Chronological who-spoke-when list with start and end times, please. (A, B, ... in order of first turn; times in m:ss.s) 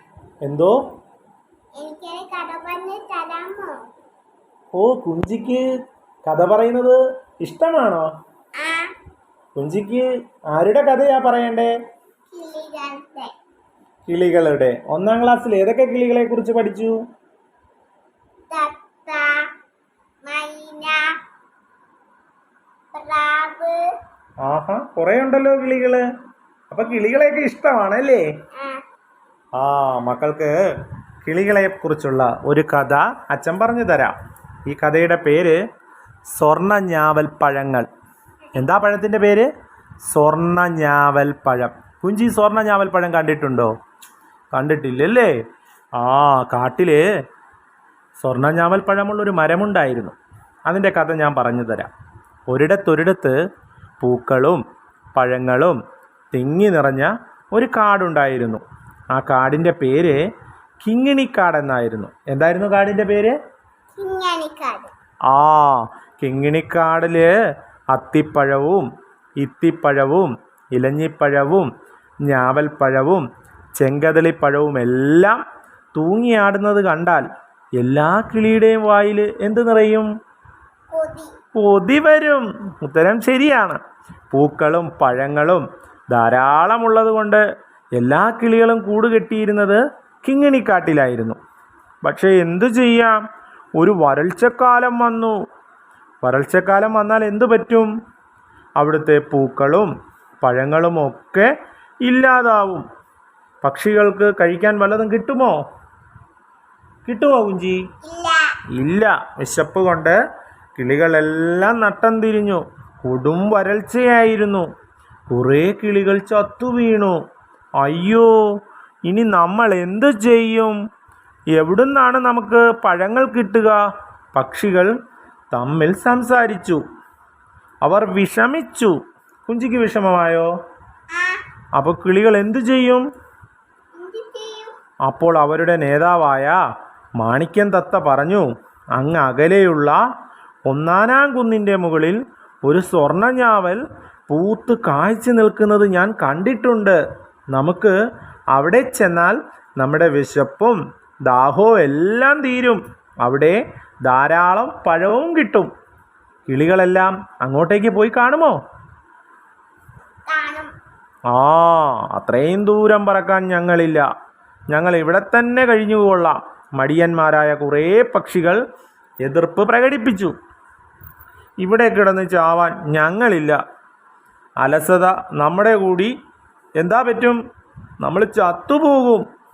0:00.4-0:00.8 A
0:01.8-0:03.8 B
0:04.7-0:05.6 A
0:06.2-0:08.1 A
0:08.6-0:08.9 B
0:09.6-0:11.7 A
0:12.3-0:13.3 B
0:14.1-0:17.0 A
0:18.5-0:19.4 B
0:20.2-0:21.0 B
0:22.9-0:23.8 B
0:24.4-0:26.0 A
0:26.7-0:28.2 A
0:29.6-0:30.5 A
0:31.2-0:35.6 A
0:36.3-0:37.9 A
0:38.5-0:39.5 A
0:40.1-0:43.7 A
0:44.5-0:45.3 A
0:46.0-0:47.0 A
0:48.2-0:50.2 A
0:50.7-0:51.9 A
0:52.5-0:53.4 A
0:54.0-0:54.6 A
0:55.1-0:55.8 A
0:56.3-1:00.2 A
1:00.8-1:03.3 A
1:04.0-1:04.9 B
1:05.3-1:07.3 A
1:07.9-1:08.9 A
1:09.4-1:11.7 A
1:12.2-1:13.2 A
1:13.8-1:15.4 A
1:15.9-1:17.3 A
1:17.8-1:20.1 A
1:20.9-1:21.3 B
1:21.5-1:23.8 A
1:24.3-1:27.4 A
1:28.0-1:31.4 A
1:32.0-1:33.2 A
1:33.8-1:35.4 A
1:36.2-1:37.9 A
1:38.8-1:41.5 A
1:42.0-1:42.9 A
1:43.6-1:45.6 A
1:47.0-1:47.8 A
1:48.0-1:48.5 B
1:48.7-1:50.2 A
1:50.8-1:54.7 A
1:55.3-1:57.2 A
1:57.8-1:58.3 A
1:59.1-2:00.8 A
2:01.5-2:03.8 A
2:04.3-2:04.9 A
2:05.5-2:06.8 A
2:07.8-2:08.9 A
2:09.5-2:10.5 A
2:11.1-2:11.4 B
2:11.8-2:13.1 A
2:14.0-2:14.7 B
2:15.1-2:16.6 A
2:17.2-2:20.0 A
2:20.7-2:27.0 A
2:27.5-2:27.9 A
2:28.5-2:35.7 A
2:36.4-2:38.6 A
2:40.3-2:40.7 B
2:41.3-2:44.1 A
2:44.7-2:48.6 A
2:49.2-2:50.3 A
2:51.6-2:53.6 A
2:54.6-2:56.1 A
2:56.8-2:57.4 A
2:58.0-2:59.2 A